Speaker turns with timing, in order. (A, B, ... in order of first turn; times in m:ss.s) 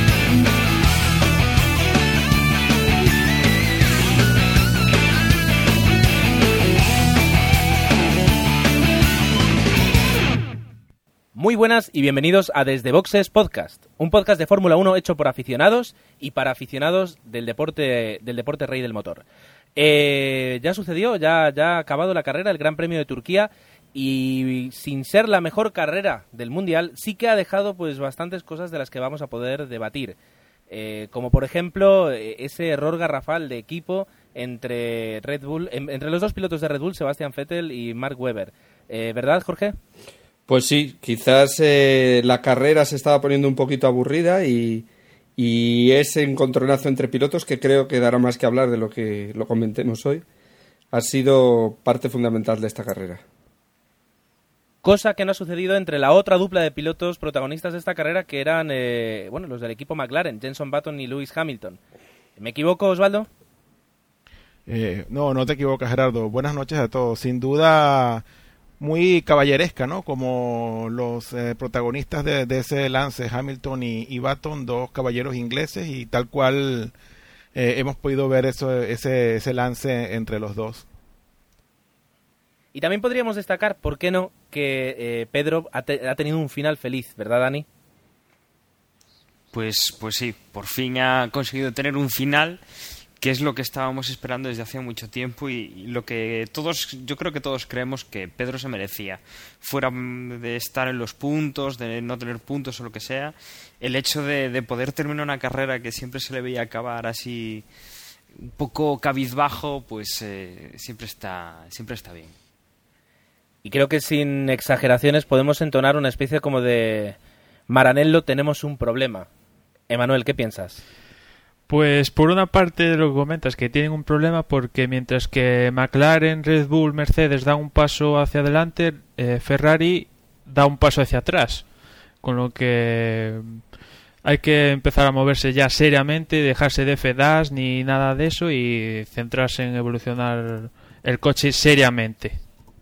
0:11.4-0:19.2 A
0:19.8-0:30.2 A
0:30.7-0:39.8 A
0:40.5-0:50.2 B
0:50.9-0:53.2 B
0:54.8-1:01.8 A
1:02.4-1:03.3 A
1:04.7-1:08.2 C
1:08.8-1:16.9 C
1:17.6-1:20.9 C
1:22.7-1:27.7 A
1:29.5-1:32.6 D
1:33.2-1:47.7 D
1:48.4-1:52.3 D
1:53.6-1:57.2 A
1:57.7-1:59.3 A
1:59.9-2:00.8 A
2:01.7-2:11.7 E
2:12.2-2:13.7 E
2:14.2-2:22.4 E